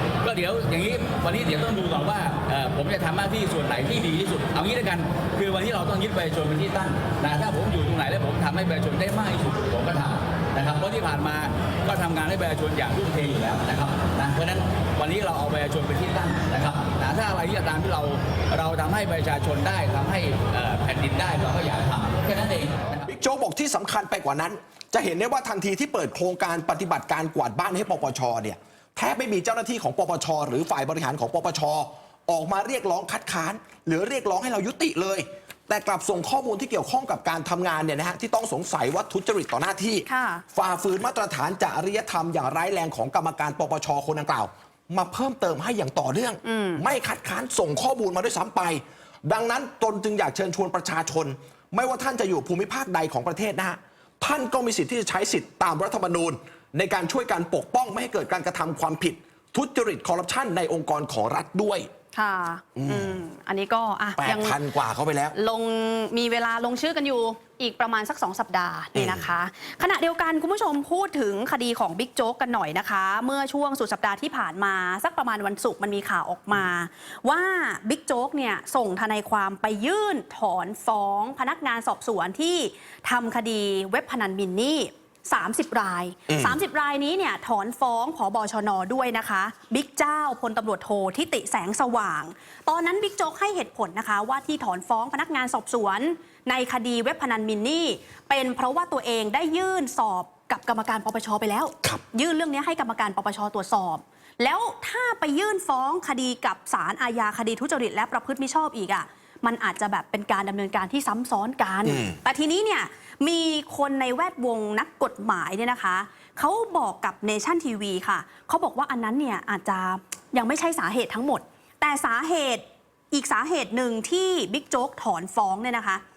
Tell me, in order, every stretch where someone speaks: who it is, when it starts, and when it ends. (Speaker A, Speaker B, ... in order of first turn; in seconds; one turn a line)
Speaker A: 0.2-23.1
Speaker B: 23.1-61.9
Speaker C: 40.1-40.5
Speaker C: 46.4-46.8
Speaker C: 62.1-64.6
Speaker B: 62.8-63.2
Speaker B: 64.2-65.4
Speaker C: 65.3-126.0
Speaker B: 68.9-69.3
Speaker B: 86.3-86.6
Speaker B: 111.8-112.2